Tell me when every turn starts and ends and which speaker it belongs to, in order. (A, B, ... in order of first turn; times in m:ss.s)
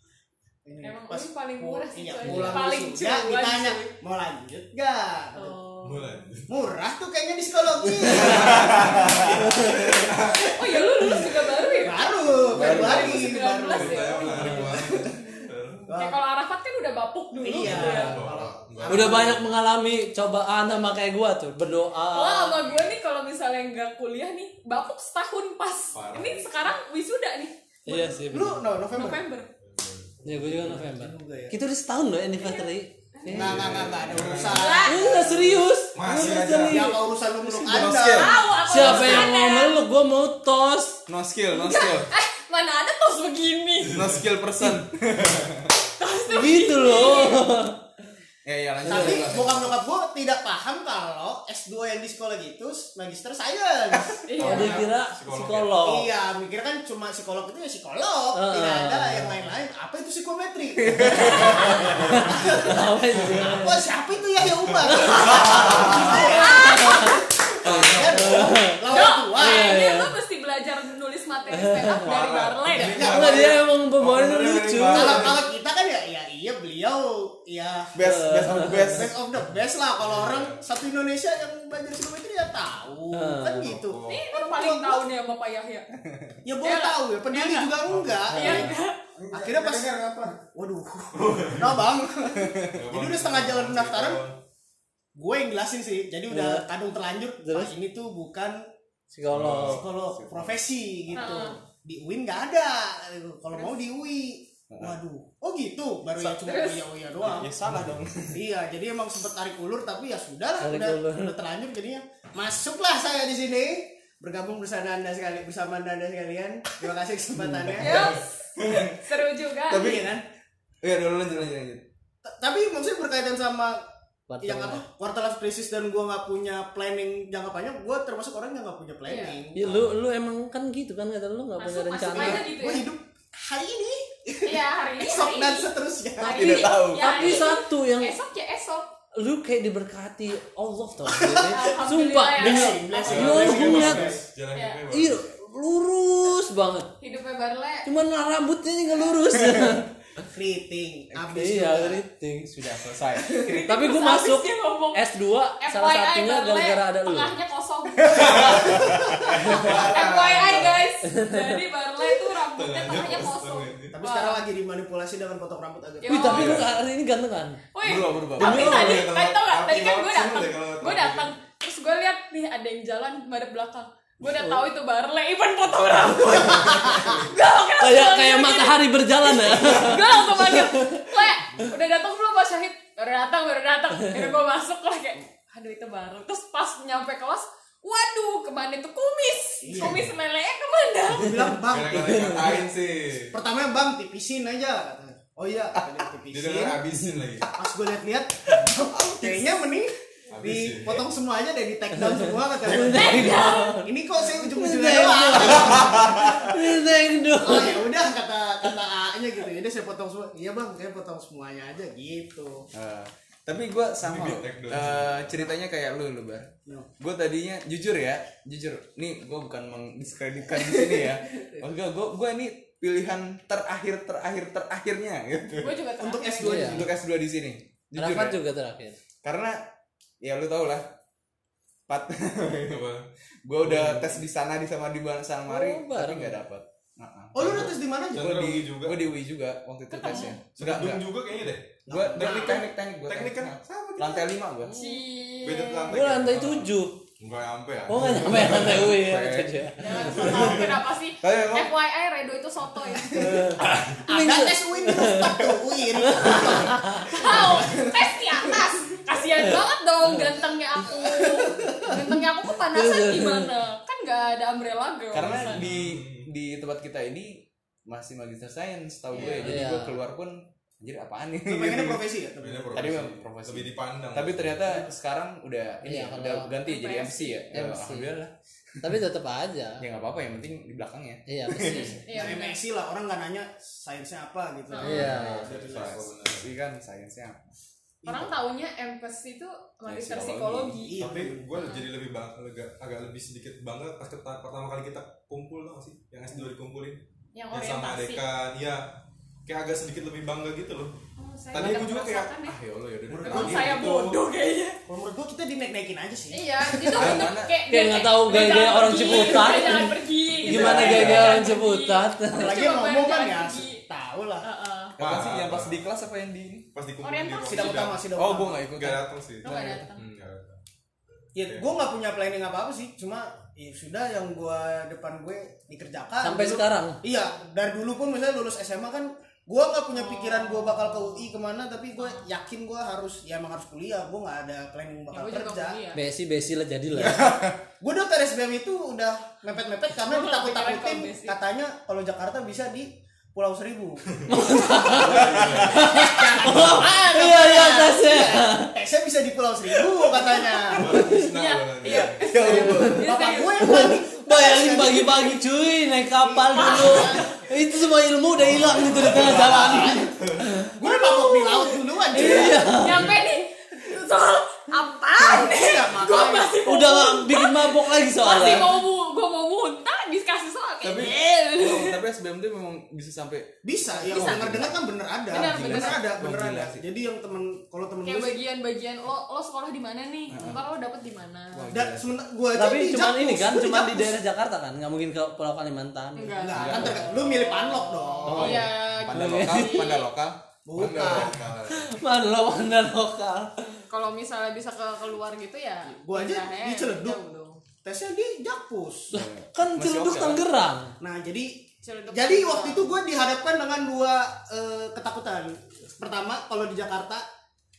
0:00.6-0:05.5 A
0:00.8-0:03.9 B
0:02.2-0:02.6 C
0:05.3-0:06.2 B
0:05.8-0:06.6 D
0:06.5-0:10.1 A
0:08.0-0:10.6 D
0:08.3-0:09.3 E
0:10.4-0:14.9 B
0:11.8-0:15.1 A
0:12.5-0:13.3 E
0:12.8-0:15.9 D
0:15.9-0:16.2 A
0:15.9-0:18.2 B
0:17.4-0:19.5 A
0:17.6-0:19.4 D
0:17.6-0:18.2 C
0:18.9-0:22.6 C
0:22.1-0:28.2 B
0:25.9-0:26.6 D
0:27.9-0:28.7 C
0:28.3-0:29.2 A
0:28.9-0:29.5 B
0:29.6-0:30.5 D
0:30.2-0:33.8 C
0:30.4-0:31.6 A
0:32.4-0:33.5 B
0:33.3-0:35.4 A
0:33.3-0:34.8 D
0:34.4-0:35.2 B
0:34.8-0:37.0 C
0:35.9-0:36.9 D
0:36.2-0:39.2 A
0:37.5-0:38.4 E
0:38.1-0:39.8 B
0:38.6-0:41.0 C
0:41.1-0:42.1 E
0:41.5-0:44.0 B
0:43.9-0:44.2 D
0:43.9-0:45.7 E
0:46.0-0:47.4 B
0:46.3-0:47.8 C
0:48.4-0:49.7 E
0:48.8-0:49.4 C
0:48.8-0:54.7 A
0:54.3-0:54.8 B
0:54.4-0:55.8 D
0:54.4-0:56.1 C
0:55.8-1:09.7 A
0:58.3-0:59.3 C
1:00.8-1:01.9 E
1:01.1-1:01.8 B
1:01.4-1:03.8 C
1:01.6-1:02.2 D
1:04.4-1:06.2 D
1:04.9-1:10.1 C
1:06.0-1:07.2 B
1:07.6-1:08.4 D
1:08.9-1:13.0 B
1:11.5-1:12.1 C
1:12.0-1:15.4 D
1:12.8-1:13.6 A
1:13.0-1:15.4 C
1:14.9-1:17.9 A
1:17.9-1:19.1 E
1:18.0-1:19.0 C
1:18.6-1:25.0 A
1:20.0-1:20.6 D
1:23.1-1:23.8 C
1:23.7-1:24.3 D
1:24.0-1:25.9 B
1:26.4-1:28.7 A
1:26.6-1:27.8 B
1:27.8-1:28.2 D
1:28.3-1:28.7 C
1:28.3-1:29.0 B
1:29.2-1:29.9 D
1:29.3-1:34.2 A
1:31.1-1:31.8 D
1:32.7-1:34.4 D
1:35.1-1:38.6 A
1:36.3-1:36.6 C
1:37.4-1:37.7 C
1:39.1-1:39.9 C
1:39.3-1:39.8 D
1:39.4-1:40.6 E
1:39.5-1:47.6 A
1:41.1-1:41.5 C
1:41.1-1:41.6 B
1:44.7-1:45.0 E
1:46.2-1:46.9 B
1:47.2-1:48.4 E
1:47.6-1:48.0 D
1:48.3-1:58.1 A
1:50.6-1:51.4 C
1:57.4-1:57.9 C
1:57.8-2:00.0 B
1:58.6-1:58.9 E
1:59.7-2:00.2 A
1:59.7-2:00.0 E
2:00.8-2:01.8 E
2:02.2-2:03.8 A
2:04.3-2:04.8 C
2:04.4-2:09.8 A
2:09.0-2:09.4 B
2:09.5-2:12.5 C
2:11.6-2:12.9 B
2:12.1-2:16.6 A
2:14.4-2:18.9 B
2:16.2-2:17.4 E
2:16.6-2:18.1 C
2:19.2-2:24.1 C
2:21.0-2:24.2 A
2:21.5-2:23.3 B
2:23.0-2:25.3 D
2:24.5-2:24.8 B
2:24.9-2:26.9 C
2:27.0-2:27.9 B
2:27.8-2:29.9 C
2:30.3-2:32.0 A
2:31.3-2:32.8 C
2:32.6-2:33.6 E
2:33.3-2:38.8 B
2:33.5-2:37.4 C
2:38.0-2:40.8 E
2:38.1-2:40.4 D
2:39.5-2:44.4 B
2:41.0-2:41.6 C
2:42.4-2:44.0 D
2:43.9-2:46.4 A
2:46.0-2:46.7 B
2:46.1-2:47.6 C
2:47.7-3:11.6 B
2:47.8-2:48.8 E
2:48.4-2:49.1 C
2:48.4-2:51.3 D
2:54.2-2:54.6 C
2:57.8-3:01.2 C
3:09.6-3:10.1 A
3:09.8-3:10.0 D
3:11.1-3:12.7 A
3:11.7-3:13.3 D
3:11.9-3:12.7 E
3:13.3-3:16.8 A
3:16.3-3:17.5 D
3:17.1-3:17.5 E
3:17.6-3:26.5 A
3:19.0-3:19.5 E
3:20.3-3:21.0 D
3:22.0-3:27.9 C
3:22.9-3:23.8 B
3:27.3-3:32.7 A
3:32.7-3:45.8 E
3:34.0-3:35.4 D
3:45.6-3:46.7 B
3:46.0-3:46.9 A
3:46.4-3:46.9 C
3:46.5-3:48.4 E
3:48.0-3:49.0 C
3:49.2-3:49.6 E
3:50.2-3:50.8 E
3:51.9-3:52.8 E
3:52.6-3:53.0 D
3:53.4-4:01.0 E
3:55.5-3:56.4 C
3:57.3-3:58.4 A
3:57.4-3:59.0 D
3:59.9-4:00.4 B
4:00.6-4:04.4 D
4:01.9-4:02.6 A
4:01.9-4:04.8 E
4:04.6-4:05.9 B
4:05.4-4:08.8 D
4:05.9-4:07.0 C
4:07.9-4:10.4 C
4:08.0-4:09.7 E
4:09.8-4:13.5 B
4:10.1-4:10.7 D
4:11.2-4:11.7 E
4:13.2-4:15.4 C
4:13.6-4:14.0 D
4:14.0-4:17.8 A
4:16.0-4:17.2 C
4:17.1-4:25.6 B
4:21.2-4:21.8 A
4:22.7-4:23.5 C
4:25.1-4:32.0 E
4:25.1-4:26.3 D
4:29.1-4:29.6 B
4:29.4-4:29.9 C
4:31.5-4:32.8 A
4:32.4-4:34.8 D
4:32.7-4:38.9 E
4:35.8-4:36.5 C
4:36.6-4:37.5 B
4:37.5-4:38.2 C
4:38.8-4:39.8 C
4:39.8-4:42.0 E
4:41.3-4:42.0 C
4:41.6-4:42.6 B
4:42.1-4:46.1 A
4:44.7-4:45.1 B
4:44.8-4:45.4 C
4:45.1-4:47.4 E
4:45.1-4:46.5 D
4:48.0-4:51.9 B
4:49.9-4:50.8 E
4:50.8-4:51.5 A
4:51.0-4:57.0 D
4:57.3-4:58.2 B
4:57.5-4:58.8 D
4:59.4-5:00.9 D
5:01.2-5:02.6 B
5:01.5-5:02.4 D
5:02.4-5:03.9 E
5:03.1-5:04.2 D
5:03.1-5:03.6 A
5:03.2-5:04.8 B
5:04.9-5:07.2 A
5:06.3-5:13.8 B
5:06.9-5:07.5 E
5:07.7-5:12.6 C
5:09.0-5:09.6 A
5:10.5-5:11.2 A
5:10.5-5:11.1 E
5:10.5-5:11.3 D
5:12.3-5:14.4 A
5:14.4-5:15.0 B
5:15.0-5:15.8 D
5:15.0-5:16.7 E
5:16.7-5:18.0 D
5:17.0-5:17.9 B
5:17.4-5:18.7 A
5:18.1-5:19.9 E
5:18.7-5:20.6 D
5:19.4-5:20.0 B
5:21.3-5:35.8 A
5:26.2-5:27.0 C
5:29.9-5:31.3 B
5:32.0-5:32.2 B
5:35.1-5:36.0 B
5:35.9-5:37.3 C
5:37.0-5:37.6 E
5:37.8-5:50.9 A
5:39.9-5:41.4 B
5:44.2-5:46.0 D
5:44.3-5:48.7 C
5:45.2-5:45.7 E
5:46.0-5:46.9 B
5:50.8-5:52.4 D
5:50.8-5:51.3 C
5:51.2-5:53.9 B
5:51.8-5:53.1 E
5:52.5-5:55.3 A
5:52.6-5:53.0 C
5:53.6-6:00.7 C
5:56.2-5:57.3 A
5:56.5-5:57.2 B
5:58.4-6:00.6 D
5:58.5-6:00.1 A
6:00.7-6:02.6 A
6:00.8-6:12.0 B
6:02.1-6:03.1 C
6:05.2-6:06.5 A
6:06.6-6:08.7 C
6:10.8-6:14.8 E
6:13.6-6:18.3 A
6:14.1-6:14.7 B
6:15.3-6:16.0 B
6:15.3-6:16.8 E
6:18.0-6:21.7 B
6:20.3-6:20.6 E
6:21.5-6:22.2 E
6:21.7-6:24.2 A
6:22.5-6:26.8 C
6:26.2-6:30.0 B
6:26.4-6:28.7 A
6:26.5-6:27.1 E
6:28.2-6:30.4 E
6:28.4-6:29.9 C
6:30.6-6:31.4 A
6:30.7-6:31.9 D
6:31.7-6:33.5 C
6:33.9-6:37.6 B
6:35.9-6:37.2 A
6:37.8-6:39.1 A
6:39.1-6:40.9 C
6:39.1-6:40.4 E
6:41.0-6:47.2 A
6:41.8-6:42.9 B